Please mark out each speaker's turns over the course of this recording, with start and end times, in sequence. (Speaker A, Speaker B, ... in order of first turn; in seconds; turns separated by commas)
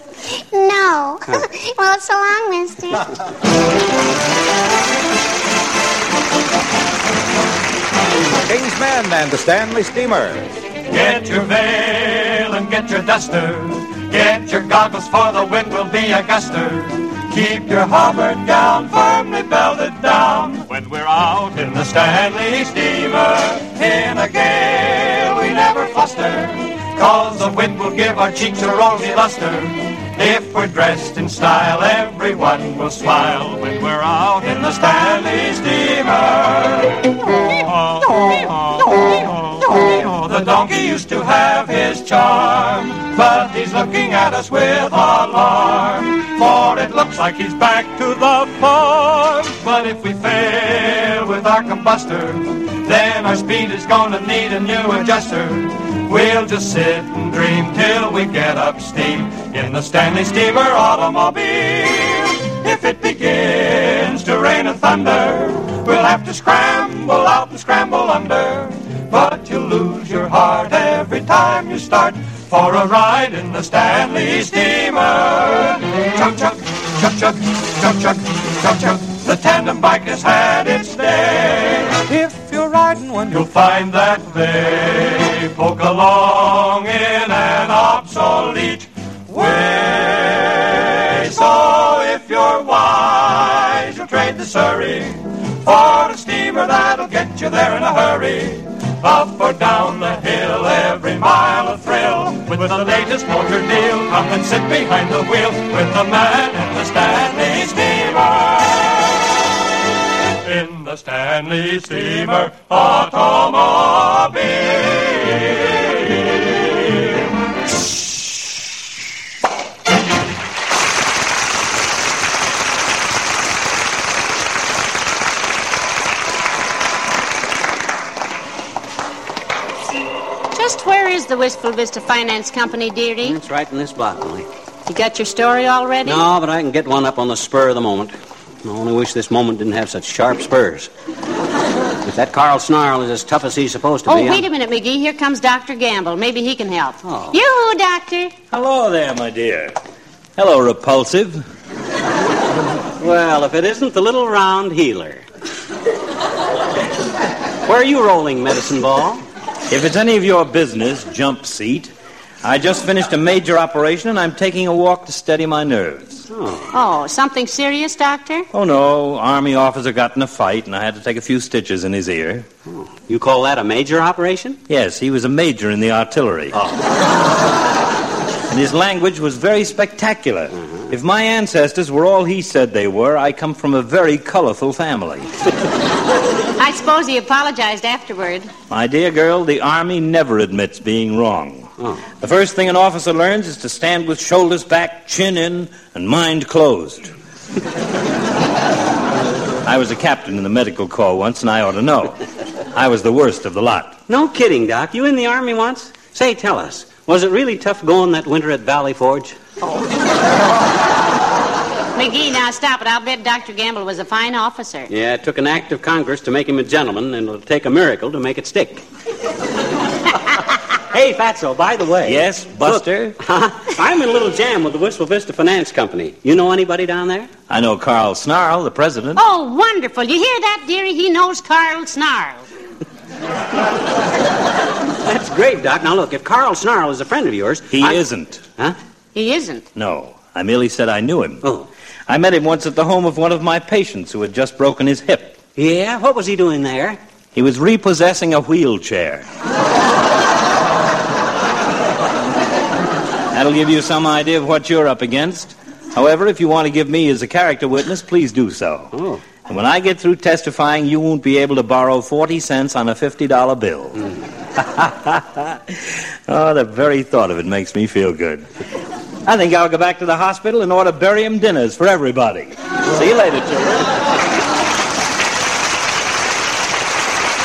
Speaker A: 0.4-3.1, Speaker B: 8.4-10.5, Speaker C: 10.9-109.1, Speaker C: 110.4-116.2, Speaker D: 130.5-133.4, Speaker E: 133.2-134.5, Speaker D: 134.9-136.3, Speaker E: 136.1-140.9, Speaker E: 142.1-144.4, Speaker D: 144.1-148.3, Speaker E: 147.0-147.4, Speaker F: 148.5-149.8, Speaker F: 150.4-151.5, Speaker E: 153.0-155.2, Speaker E: 157.7-159.2, Speaker F: 159.7-166.2, Speaker E: 166.3-166.7, Speaker D: 166.7-168.5, Speaker F: 168.5-172.5, Speaker E: 172.7-174.6, Speaker F: 174.7-176.6, Speaker F: 178.5-185.3, Speaker D: 186.6-188.5, Speaker F: 188.7-197.1, Speaker F: 199.7-202.2, Speaker F: 202.7-204.0, Speaker E: 204.1-209.4, Speaker D: 211.9-214.9, Speaker E: 214.9-218.8, Speaker E: 220.9-227.3, Speaker F: 222.1-223.2, Speaker F: 227.5-229.2, Speaker D: 229.2-232.4, Speaker E: 235.0-238.0, Speaker F: 237.7-238.4, Speaker D: 239.2-239.7, Speaker F: 239.8-241.5, Speaker E: 241.4-241.7, Speaker F: 242.1-245.4, Speaker E: 245.6-247.0, Speaker F: 247.3-249.2, Speaker F: 253.3-258.9, Speaker E: 258.9-259.2, Speaker F: 259.4-264.1, Speaker F: 264.8-268.5, Speaker F: 269.2-273.9